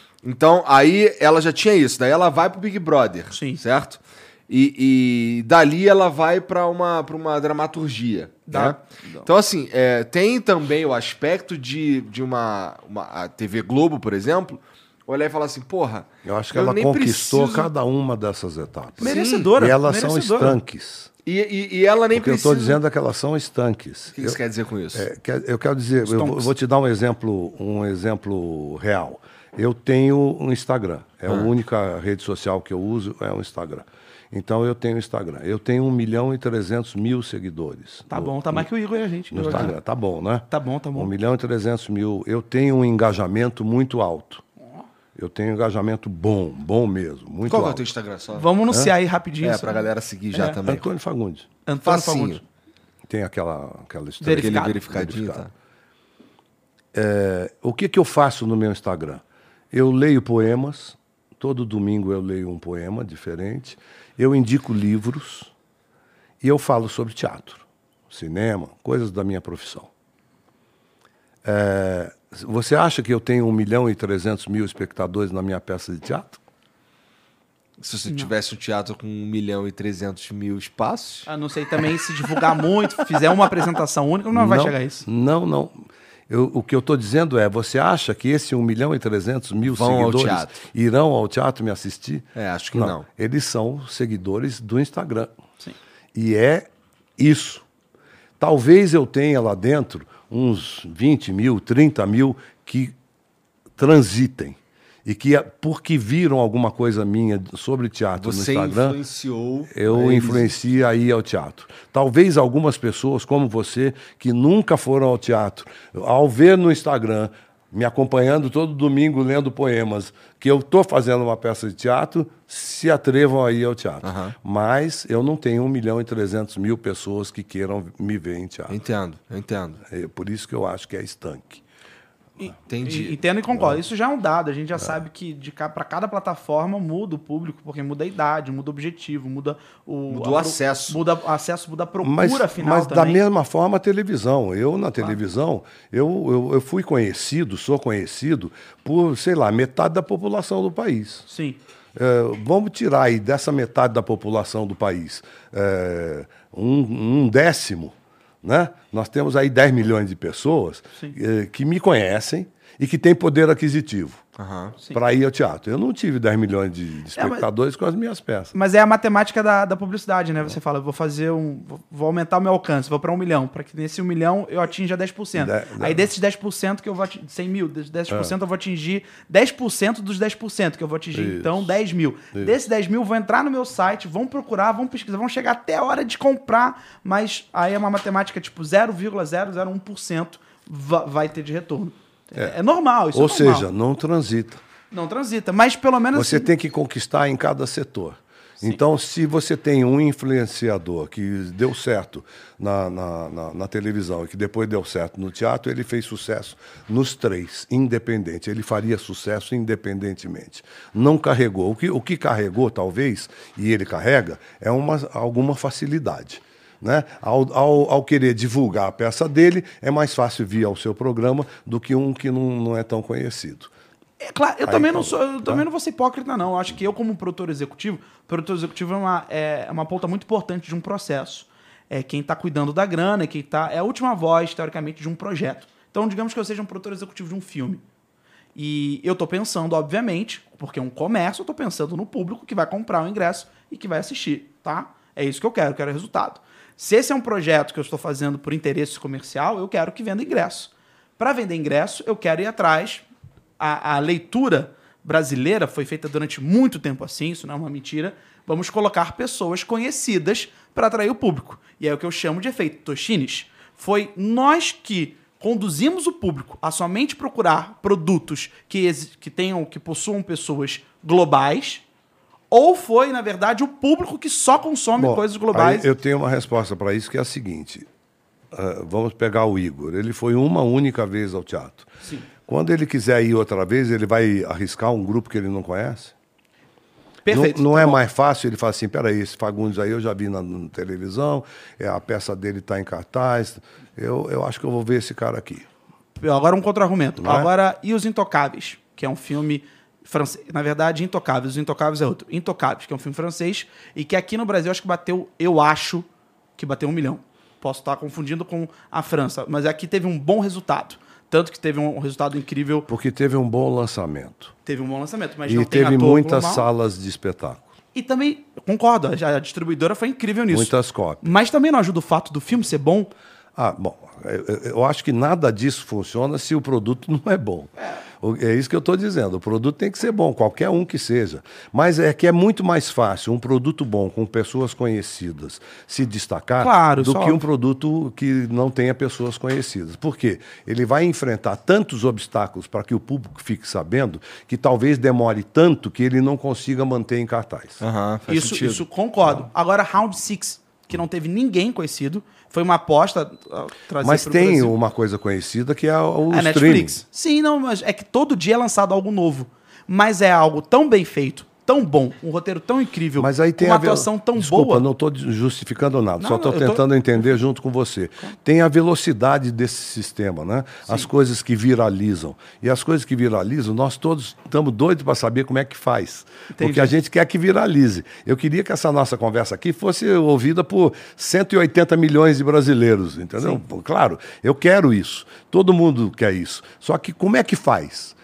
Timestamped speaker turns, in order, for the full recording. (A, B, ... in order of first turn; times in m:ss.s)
0:00.2-0:17.7 A
0:03.3-0:03.6 B
0:08.5-0:09.3 B
0:16.2-0:21.1 C
0:19.0-0:20.6 B
0:19.0-0:19.5 A
0:21.2-0:22.8 A
0:22.1-0:24.4 C
0:24.1-0:25.0 A
0:24.9-0:38.7 C
0:26.0-0:26.5 B
0:38.1-0:39.7 B
0:39.3-0:44.4 C
0:40.5-0:41.1 B
0:45.1-0:47.8 C
0:47.4-0:48.5 A
0:48.3-0:50.6 B
0:49.4-0:50.9 A
0:50.6-0:51.5 C
0:51.6-0:52.4 B
0:51.8-0:52.4 A
0:53.1-0:55.5 C
0:54.2-0:54.8 B
0:54.3-0:55.5 A
0:56.9-1:05.5 C
1:06.4-1:09.9 C
1:11.4-1:16.4 C
1:17.8-1:21.3 A
1:21.3-1:25.0 B
1:24.3-1:35.3 C
1:29.6-1:30.6 A
1:32.4-1:33.0 A
1:36.1-1:37.6 C
1:38.4-1:42.9 C
1:43.8-1:49.0 C
1:48.2-1:50.6 A
1:49.7-2:08.8 C
2:04.0-2:04.3 A
2:08.7-2:09.8 A
2:09.8-2:11.6 C
2:12.4-2:23.2 B
2:12.7-2:13.2 A
2:20.1-2:21.0 A
2:22.0-2:31.2 C
2:31.3-2:31.6 B
2:31.9-2:44.2 C
2:44.4-2:44.8 A
2:44.9-2:48.5 C
2:47.2-2:47.5 B
2:48.5-3:13.6 B
2:55.3-2:56.1 C
2:58.1-2:58.3 C
3:01.1-3:01.7 C
3:13.1-3:14.6 C
3:14.9-3:16.5 B
3:16.1-3:43.7 C
3:44.2-3:57.8 B
3:44.6-3:45.6 C
3:58.5-4:13.0 B
4:13.6-4:31.8 B
4:32.5-4:35.9 B
4:35.0-4:37.9 C
4:38.5-4:41.9 C
4:42.4-4:46.1 C
4:47.2-4:48.0 B
4:47.3-4:55.7 C
4:56.2-5:12.9 B
4:57.2-4:57.5 C
5:12.9-5:14.5 C
5:14.6-5:16.7 B
5:15.5-5:17.7 C
5:17.9-5:23.1 B
5:20.5-5:21.3 C
5:23.5-5:27.7 C
5:28.2-5:47.8 C
5:36.6-5:37.4 B
5:47.8-5:48.8 A
5:48.3-5:54.7 B
5:54.0-5:57.0 C
5:56.3-6:04.8 B
6:03.2-6:28.2 C
6:06.2-6:06.8 B
6:16.5-6:16.9 B